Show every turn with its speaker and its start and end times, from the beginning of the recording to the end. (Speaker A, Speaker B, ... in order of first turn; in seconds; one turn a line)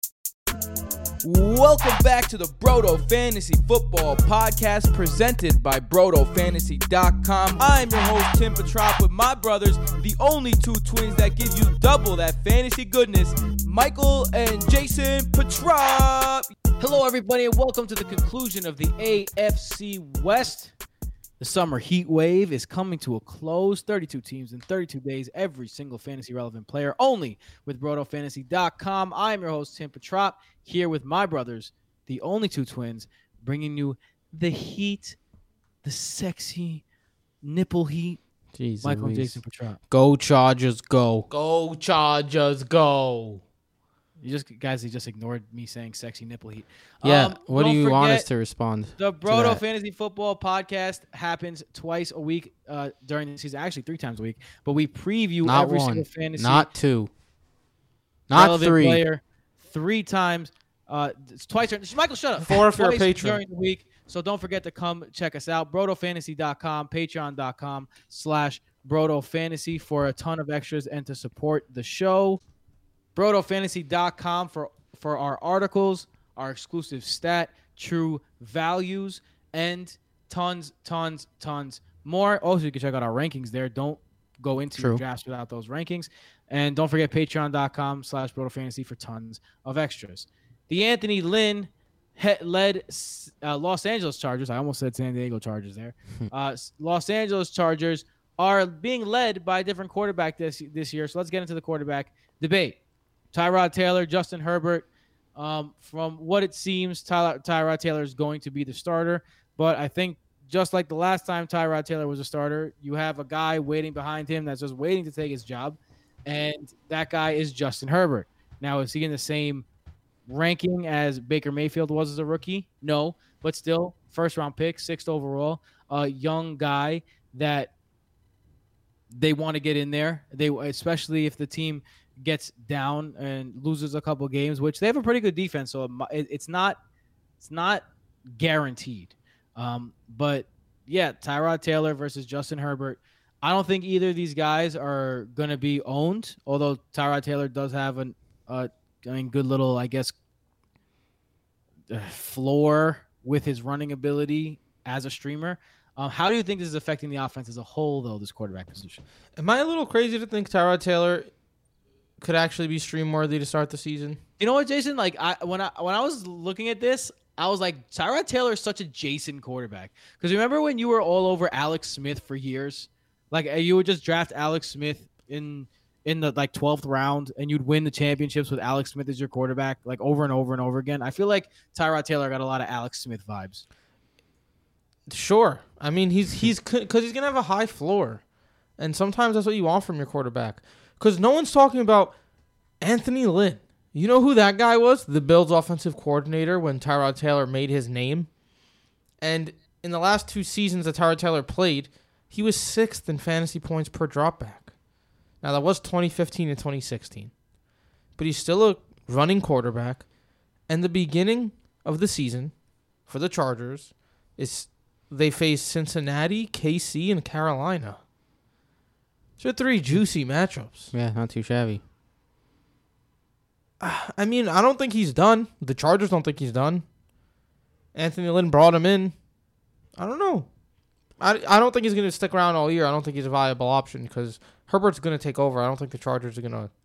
Speaker A: 1.2-20.7
Speaker A: 21.4-35.2
Speaker A: 35.8-36.8
Speaker A: 37.4-38.2
Speaker B: 38.5-39.4
Speaker A: 38.8-39.8
Speaker B: 39.9-41.3
Speaker C: 41.3-43.4
Speaker A: 44.2-48.2
Speaker B: 47.0-49.6
Speaker A: 49.0-56.7
Speaker B: 55.4-57.1
Speaker B: 58.3-59.0
Speaker A: 58.3-72.4
Speaker C: 62.4-63.4
Speaker A: 73.1-102.8
Speaker B: 84.8-85.0
Speaker A: 103.3-119.7
Speaker A: 120.3-127.7
Speaker A: 129.1-136.8
Speaker A: 137.4-137.8
Speaker A: 138.4-150.2
Speaker A: 151.9-159.0
Speaker C: 159.3-161.3
Speaker C: 162.2-164.2
Speaker A: 164.4-183.7
Speaker C: 185.1-188.2
Speaker C: 188.8-192.2
Speaker C: 192.8-198.3
Speaker C: 199.2-204.7
Speaker C: 205.4-207.3
Speaker C: 208.2-210.1
Speaker C: 210.7-212.5
Speaker C: 213.1-218.0
Speaker C: 219.4-220.9
Speaker B: 220.9-221.8
Speaker C: 223.8-226.8
Speaker C: 227.9-229.2
Speaker C: 229.9-230.5
Speaker C: 231.2-236.7